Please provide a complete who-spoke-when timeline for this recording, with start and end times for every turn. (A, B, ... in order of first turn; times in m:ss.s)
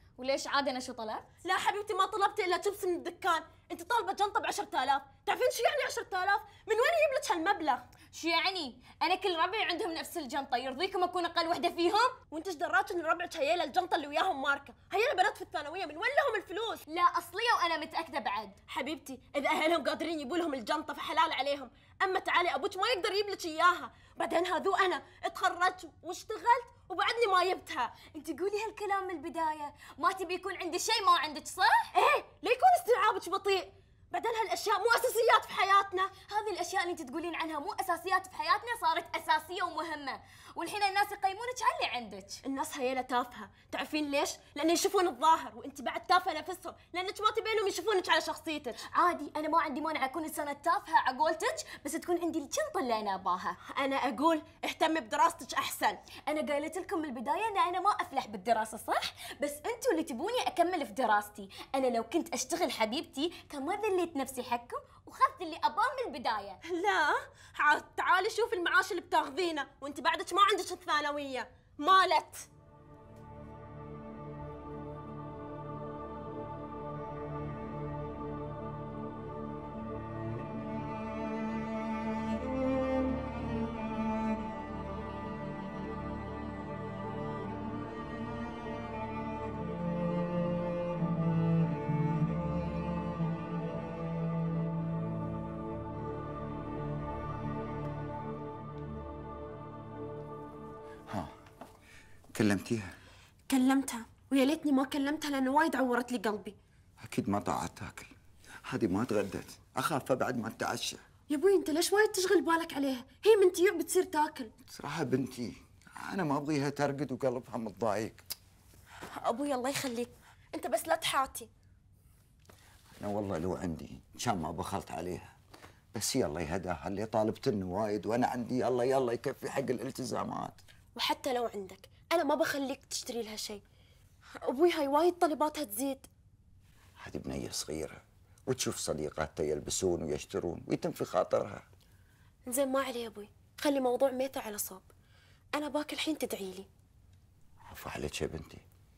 0:00.2-0:01.3 A
0:01.4-0:07.8 B
0:08.1-0:12.2 A
0:12.3-0:16.8 B
0:16.9-0:18.6 A
0:18.7-0:28.0 B
0:28.0-0:31.9 A
0:31.9-0:36.2 B
0:36.2-0:42.4 A
0:42.4-0:48.8 B
0:48.8-0:53.6 A
0:53.7-0:56.0 B
0:56.3-1:06.6 A
1:06.7-1:12.5 B
1:42.3-1:42.9 C
1:43.5-1:46.6 B
1:47.0-1:48.1 C
1:48.7-1:51.0 C
1:51.3-1:54.5 B
1:54.7-1:58.2 C
1:59.2-2:01.5 B
2:03.0-2:05.3 C
2:05.9-2:10.6 C
2:11.0-2:13.6 B
2:14.4-2:16.1 B
2:17.0-2:21.6 C
2:22.5-2:24.9 B
2:25.5-2:26.7 B
2:27.7-2:28.6 C